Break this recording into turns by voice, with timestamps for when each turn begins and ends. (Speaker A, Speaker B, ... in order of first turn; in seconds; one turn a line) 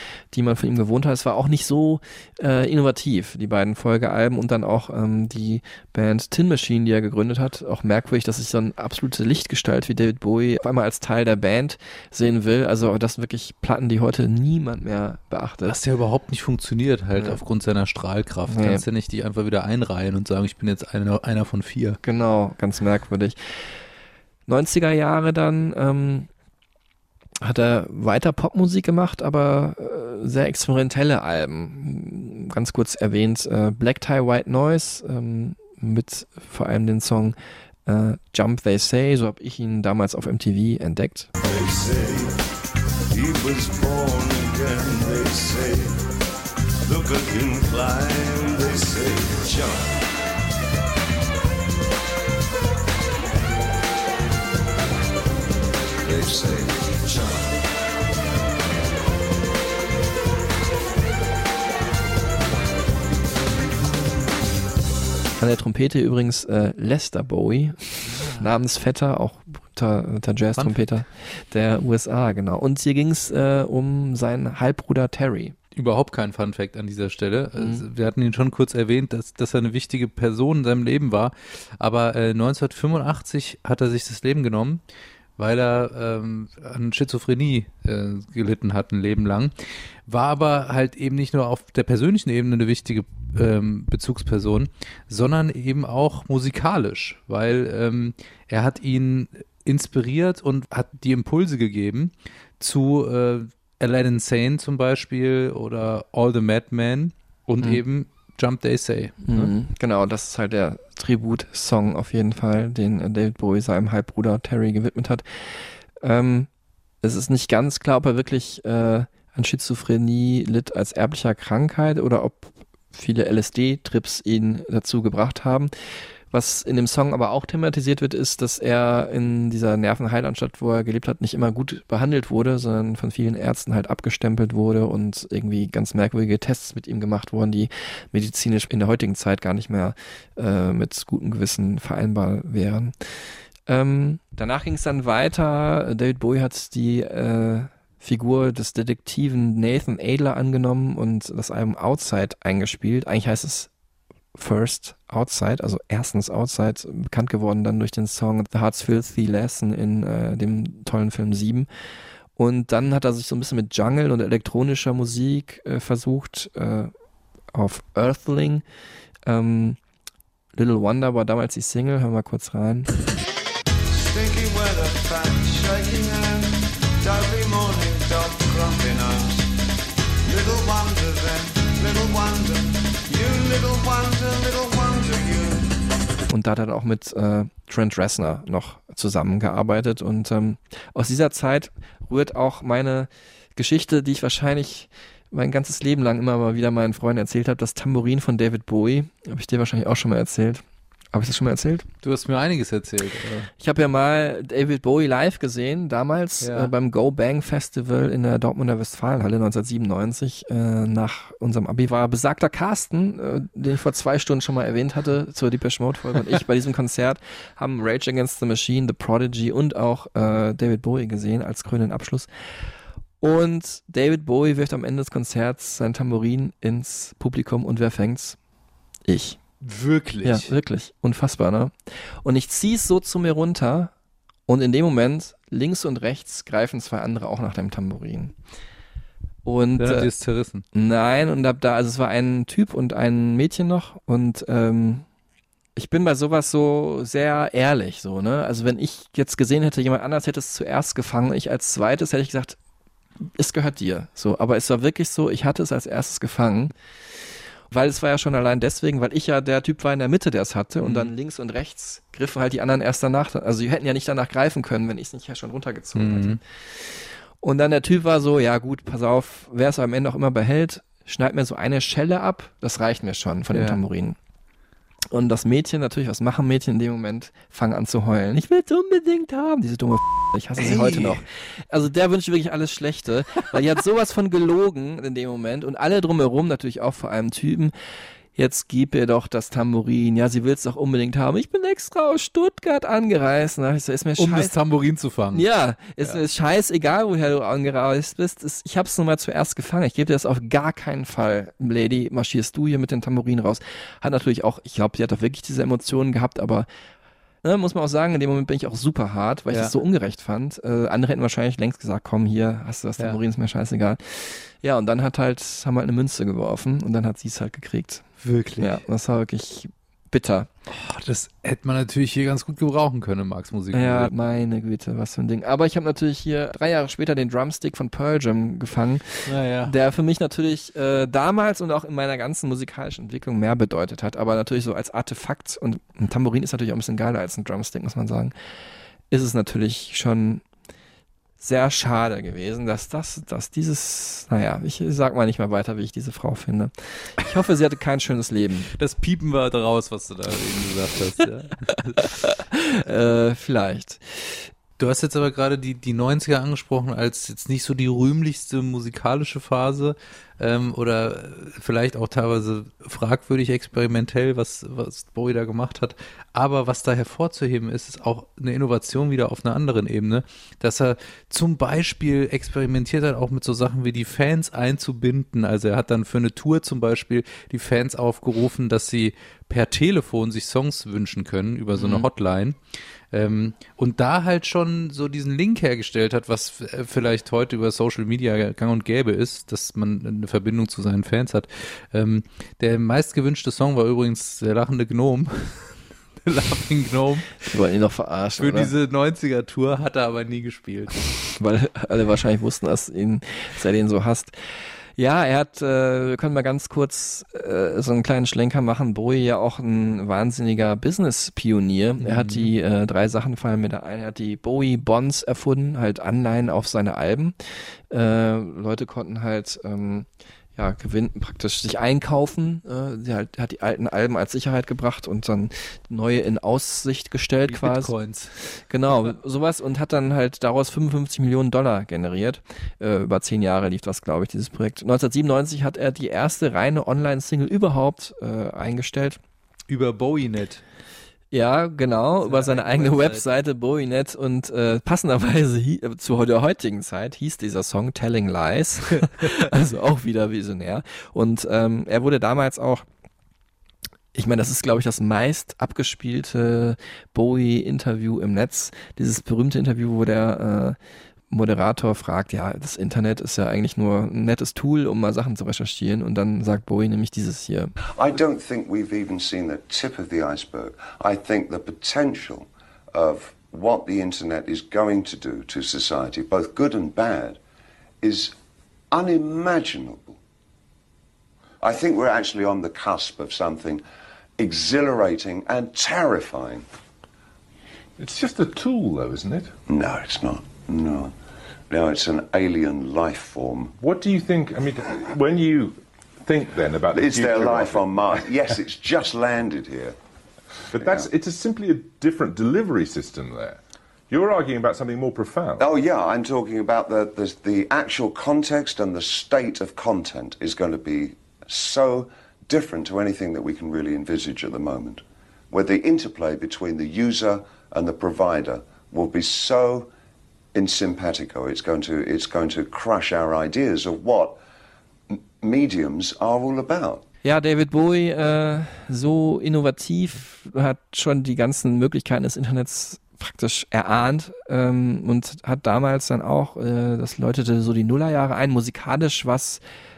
Speaker A: 0.3-15.8
Speaker B: 15.7-22.0
Speaker A: 18.5-18.8
Speaker A: 22.0-23.4
Speaker A: 24.5-26.3
Speaker A: 27.4-41.3
Speaker C: 41.4-42.4
Speaker C: 43.1-46.0
Speaker C: 46.9-50.0
Speaker C: 56.0-57.6
Speaker A: 65.4-75.5
Speaker B: 68.0-68.5
Speaker B: 75.8-84.8
Speaker A: 77.5-77.8
Speaker B: 85.4-89.5
Speaker B: 90.1-109.5
Speaker A: 109.2-116.5
Speaker A: 117.0-125.7
Speaker A: 126.3-142.9
Speaker A: 143.7-153.7
Speaker A: 154.3-161.7
Speaker A: 162.4-166.9
Speaker A: 167.5-168.6
Speaker A: 169.3-169.8
Speaker A: 170.6-172.9
Speaker C: 173.9-179.5
Speaker C: 180.2-185.7
Speaker A: 186.3-201.8
Speaker B: 202.0-203.5
Speaker A: 203.6-222.3
Speaker B: 206.4-206.7
Speaker A: 223.2-228.4
Speaker A: 229.1-229.4
Speaker B: 229.6-230.5
Speaker A: 230.2-233.9
Speaker A: 234.5-238.3
Speaker A: 239.4-240.1
Speaker B: 239.8-240.7
Speaker A: 240.7-245.1
Speaker A: 245.8-252.6
Speaker A: 253.4-256.7
Speaker A: 257.7-266.4
Speaker B: 260.8-261.1
Speaker B: 265.9-266.4
Speaker A: 267.4-274.2
Speaker B: 273.5-273.8
Speaker A: 275.1-287.7
Speaker B: 280.6-281.2
Speaker A: 288.4-294.5
Speaker B: 294.2-295.5
Speaker A: 295.3-306.7
Speaker A: 307.4-318.0
Speaker B: 318.2-318.8
Speaker A: 318.6-320.5
Speaker B: 320.7-324.1
Speaker A: 323.7-338.3
Speaker B: 329.3-329.7
Speaker A: 339.1-340.4
Speaker A: 341.4-348.7
Speaker B: 348.8-352.1
Speaker A: 352.5-354.5
Speaker B: 354.8-382.6
Speaker A: 381.8-382.1
Speaker B: 383.1-397.4
Speaker A: 397.4-398.7
Speaker B: 398.4-401.0
Speaker A: 401.4-404.4
Speaker A: 405.0-417.4
Speaker B: 412.0-412.5
Speaker A: 417.9-428.0
Speaker B: 427.5-428.3
Speaker A: 428.7-439.2
Speaker B: 439.7-440.6
Speaker A: 441.3-452.9
Speaker B: 442.2-443.2
Speaker A: 454.1-460.8
Speaker A: 461.3-467.7
Speaker D: 468.0-477.4
Speaker D: 478.0-478.3
Speaker D: 478.9-480.2
Speaker D: 481.6-483.8
Speaker D: 484.4-486.6
Speaker E: 488.0-489.5
Speaker D: 489.7-491.1
Speaker D: 491.7-493.7
Speaker E: 493.8-498.6
Speaker D: 496.9-500.0
Speaker E: 500.7-505.6
Speaker D: 500.7-501.1
Speaker D: 505.6-519.9
Speaker D: 520.5-524.4
Speaker D: 525.1-527.0
Speaker A: 527.2-539.6